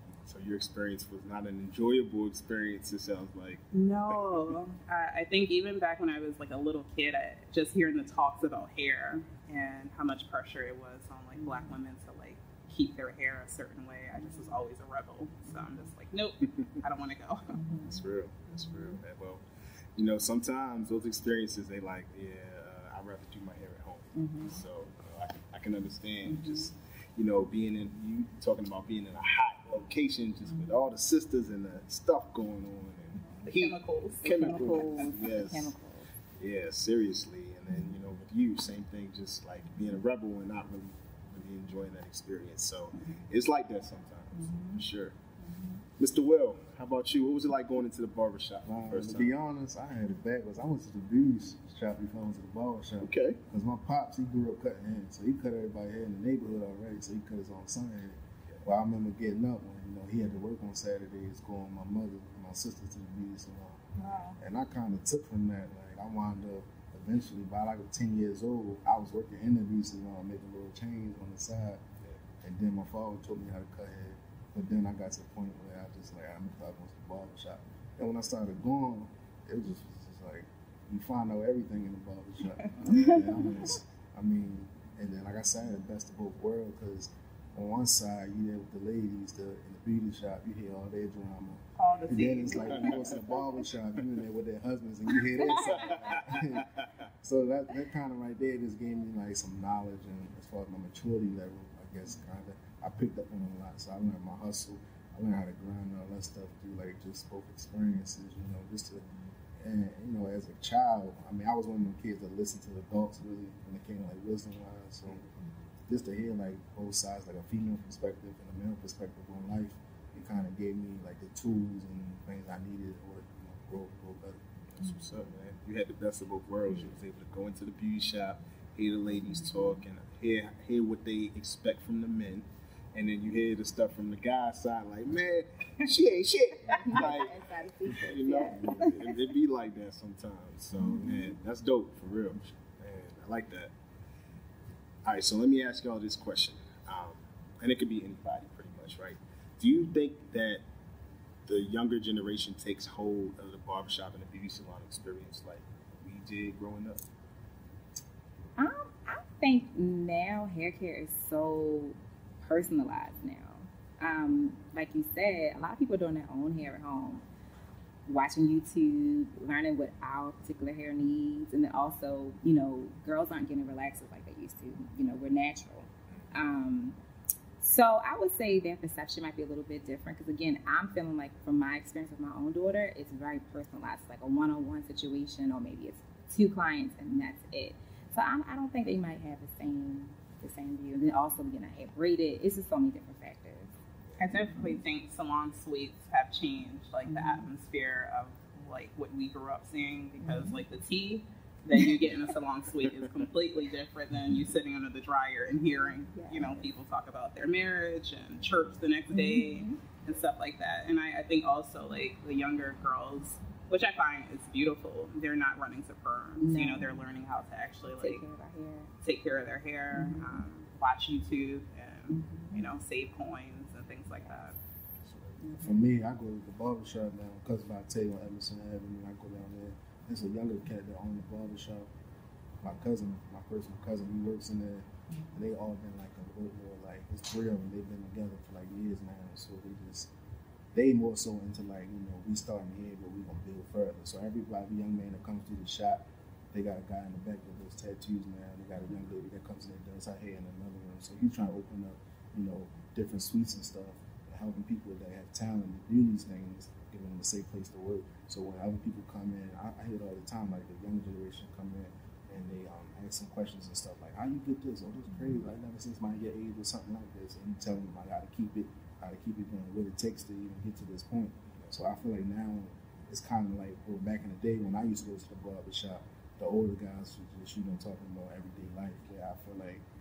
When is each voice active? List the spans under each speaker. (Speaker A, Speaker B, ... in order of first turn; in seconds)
Speaker A: 0.2-4.5, 17.8-19.4, 19.9-35.7, 36.4-45.2, 46.0-49.3, 53.0-53.4, 82.9-83.3, 92.1-93.2, 95.6-96.9, 124.8-143.7, 145.0-150.6, 151.4-157.1, 225.1-225.4
Speaker B: 3.7-17.6, 33.5-34.7, 64.0-64.4, 91.8-93.4, 194.2-218.2, 219.0-224.6
Speaker C: 17.5-18.0, 24.1-24.6, 26.3-26.7, 33.2-33.4, 34.2-36.1, 44.4-44.8, 45.4-45.8, 136.7-139.3, 158.6-167.3, 168.1-177.0, 177.6-193.7, 197.1-197.4, 200.2-200.6, 205.8-206.7, 209.1-209.8, 216.4-217.0, 218.0-218.9, 219.9-220.4, 222.1-222.6, 225.4-225.8
Speaker D: 48.6-71.8, 72.4-96.7, 97.2-115.2, 115.8-124.4, 225.6-231.9, 232.6-240.1, 240.7-279.8